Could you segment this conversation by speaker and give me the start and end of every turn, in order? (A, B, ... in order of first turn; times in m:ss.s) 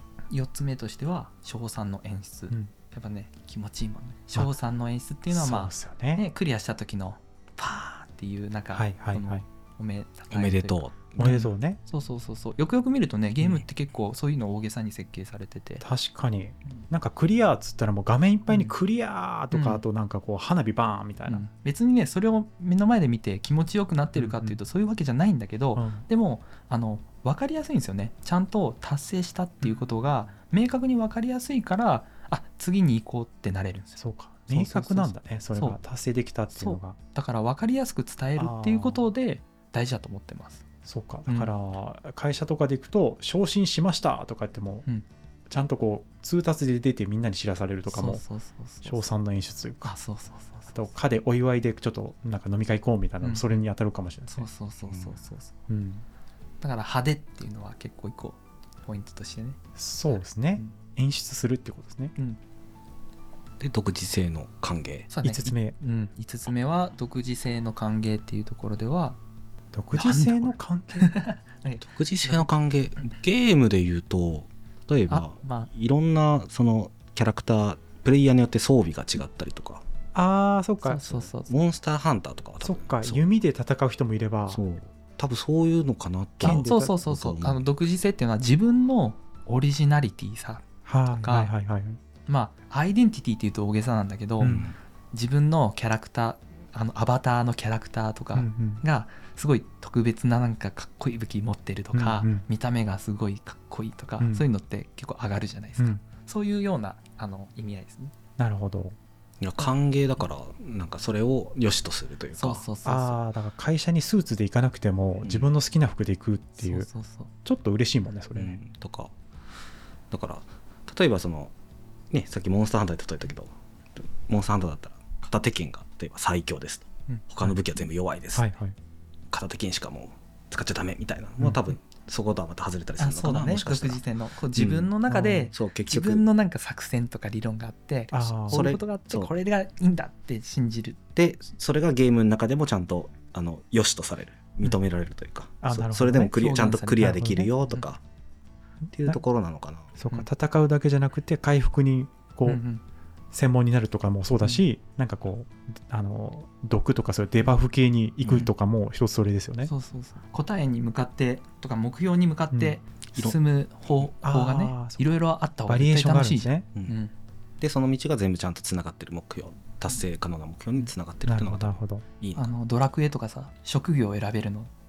0:00.3-0:15.8 A
0:05.3-0:06.2 B
0:08.7-0:09.4 B
0:10.3-0:11.3 C
0:11.2-0:11.8 B
0:15.8-0:21.4 B
0:18.5-0:18.7 A
0:19.5-0:19.8 A
0:21.3-0:35.8 A
0:24.1-0:24.6 B
0:25.8-0:26.0 B
0:29.6-0:29.9 B
0:34.0-0:37.0 B
0:36.5-0:40.6 A
0:38.4-0:39.1 B
0:40.8-0:44.8 B
0:41.3-0:41.5 A
0:45.5-0:48.2 B
0:47.9-0:49.0 A
0:48.8-0:50.0 B
0:49.8-0:50.9 A
0:50.7-0:54.5 B
0:54.2-0:55.5 A
0:54.9-0:55.2 C
0:55.7-0:56.0 B
0:56.6-0:59.6 A
0:59.8-1:02.1 B
1:03.6-1:05.1 C
1:05.1-1:09.2 A
1:05.2-1:05.7 B
1:09.7-1:11.1 B
1:09.9-1:12.5 A
1:11.8-1:19.8 C
1:15.1-1:15.7 A
1:20.1-1:21.0 B
1:20.8-1:21.5 A
1:21.1-1:23.2 C
1:22.6-1:24.6 B
1:24.5-1:27.6 C
1:26.4-1:31.5 A
1:26.4-1:26.9 B
1:30.8-1:32.0 B
1:32.2-1:34.6 A
1:34.4-1:34.7 B
1:34.4-1:34.7 C
1:35.1-1:48.1 A
1:38.3-1:38.8 B
1:41.9-1:42.4 B
1:44.2-1:44.4 B
1:48.4-1:49.0 B
1:49.4-1:52.6 C
1:52.4-1:53.2 A
1:52.8-1:56.9 B
1:55.2-1:55.5 C
1:56.6-1:57.3 A
1:57.4-1:58.6 B
1:58.3-1:59.1 C
2:00.1-2:01.5 C
2:02.1-2:08.5 C
2:08.3-2:08.8 B
2:09.3-2:14.0 C
2:13.0-2:21.0 A
2:14.5-2:14.9 C
2:15.1-2:15.5 B
2:15.5-2:16.2 C
2:18.1-2:18.7 B
2:18.5-2:19.3 C
2:21.2-2:28.0 C
2:25.6-2:26.4 B
2:26.3-2:27.8 A
2:27.0-2:27.5 B
2:28.9-2:29.9 C
2:30.0-2:32.6 B
2:32.4-2:32.8 A
2:33.3-2:39.7 B
2:39.6-2:47.1 A
2:42.5-2:42.8 B
2:44.2-2:45.1 B
2:45.6-2:46.6 B
2:47.6-2:52.5 C
2:51.2-2:52.0 B
2:52.4-2:54.7 A